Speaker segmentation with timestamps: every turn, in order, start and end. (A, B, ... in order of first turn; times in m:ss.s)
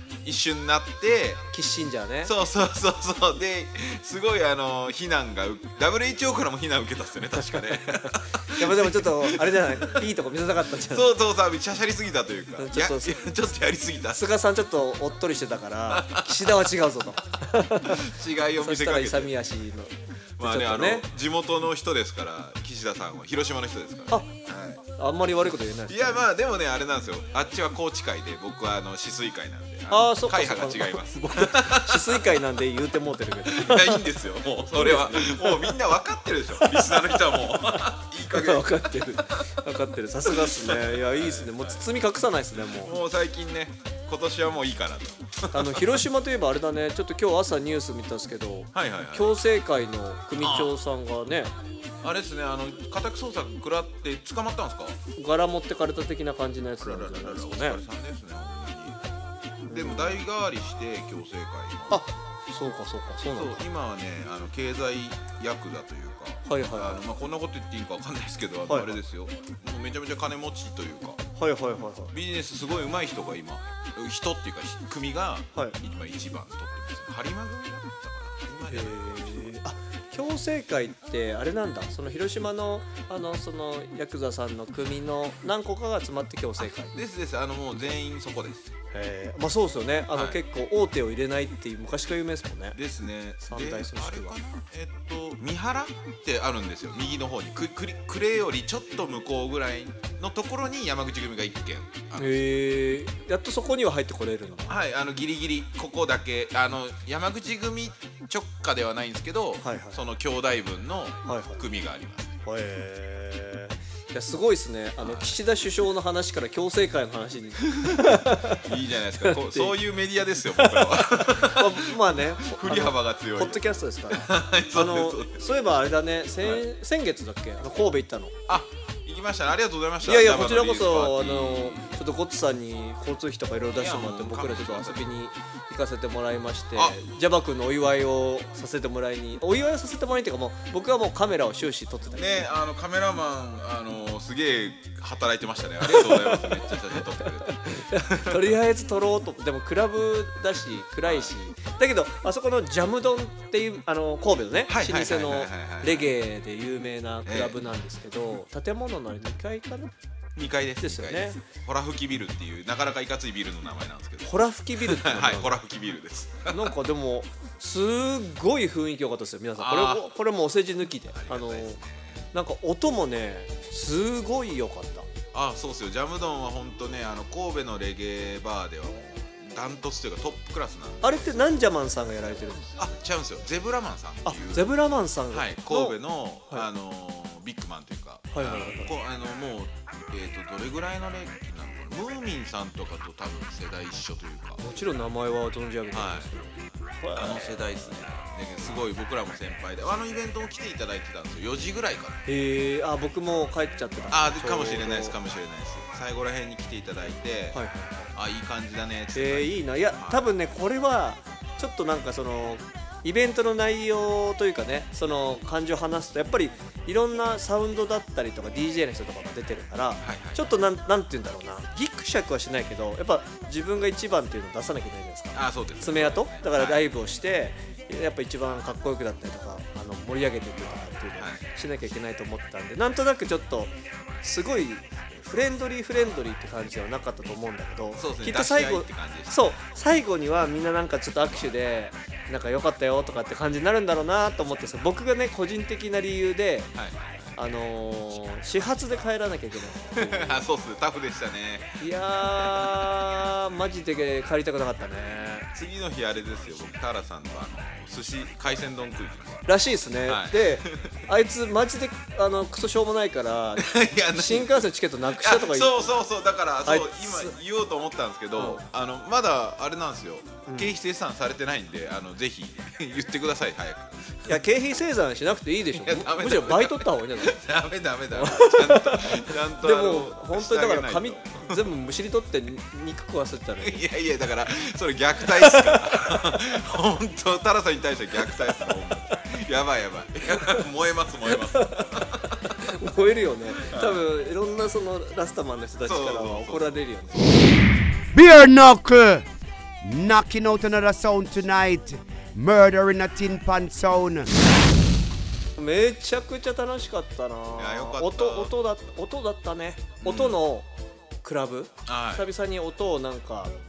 0:00.2-0:01.4 A
0:01.5-0:02.3 B
0:02.2-0:10.0 A
0:08.5-0:11.1 B
0:10.9-0:14.2 A
0:12.6-0:13.2 B
0:14.1-0:18.1 B
0:15.9-0:16.6 A
0:17.9-0:19.3 A
0:18.6-0:21.1 B
0:20.4-0:24.8 A
0:25.0-0:26.3 B
0:25.9-0:32.4 A
0:29.9-0:34.1 B
0:33.5-0:39.4 A
0:34.7-0:35.8 B
0:36.5-0:43.0 B
0:40.3-0:41.8 A
0:42.6-0:46.0 A
0:45.5-0:51.5 B
0:48.7-0:49.4 A
0:50.4-0:50.7 A
0:52.0-0:55.0 A
0:55.2-0:57.8 B
0:56.8-0:59.0 A
0:59.6-1:00.2 B
0:59.7-1:02.0 A
1:01.9-1:03.6 B
1:03.3-1:11.2 A
1:06.4-1:07.0 B
1:08.7-1:09.0 B
1:11.4-1:12.1 B
1:12.1-1:19.5 A
1:18.7-1:27.0 B
1:26.6-1:28.7 A
1:28.9-1:32.8 B
1:30.1-1:30.4 A
1:32.8-1:42.4 A
1:33.4-1:34.4 B
1:42.2-1:44.8 B
1:44.7-1:52.4 A
1:49.6-1:50.0 B
1:51.2-1:51.6 B
1:52.4-1:58.7 B
1:55.0-1:55.4 A
1:57.8-2:05.4 A
1:59.2-1:59.8 B
2:00.5-2:08.3 B
2:08.5-2:12.0 A
2:10.0-2:22.5 B
2:13.8-2:15.1 A
2:22.2-2:28.5 A
2:25.9-2:39.9 B
2:31.1-2:31.3 A
2:34.7-2:36.1 A
2:37.3-2:37.6 A
2:40.4-2:46.7 A
2:40.8-2:41.4 B
2:44.2-2:45.6 B
2:46.5-2:51.8 B
2:49.6-2:50.1 A
2:51.1-2:52.2 A
2:52.3-2:55.1 B
2:55.3-3:01.6 A
3:01.0-3:02.7 B
3:02.8-3:04.7 A
3:04.2-3:06.0 B
3:05.3-3:14.6 A
3:08.3-3:08.9 B
3:14.6-3:17.6 B
3:15.9-3:16.3 A
3:17.2-3:22.2 A
3:22.3-3:25.2 B
3:24.1-3:27.6 A
3:27.5-3:28.1 B
3:28.1-3:30.2 A
3:29.1-4:06.7 B
3:40.0-3:40.4 A
3:45.3-3:46.8 A
3:51.2-3:51.4 A
3:58.0-3:59.4 A
4:06.8-4:07.3 A
4:07.4-4:10.4 B
4:10.0-4:13.0 A
4:11.8-4:15.5 B
4:15.6-4:19.5 A
4:19.5-4:26.0 B
4:20.1-4:21.0 A
4:23.6-4:34.4 A
4:26.6-4:27.4 B
4:28.4-4:28.6 B
4:30.5-4:30.7 B
4:34.3-4:37.4 B
4:35.8-4:41.7 A
4:38.1-4:43.8 B
4:43.6-4:52.6 A
4:51.3-4:51.8 B
4:52.6-4:57.3 B
4:53.6-4:54.0 A
4:55.8-4:57.4 A
4:58.1-4:59.3 C
4:59.8-5:04.4 C
5:05.6-5:10.7 B
5:07.6-5:08.5 A
5:10.0-5:10.4 A
5:11.2-5:13.6 B
5:11.9-5:12.3 A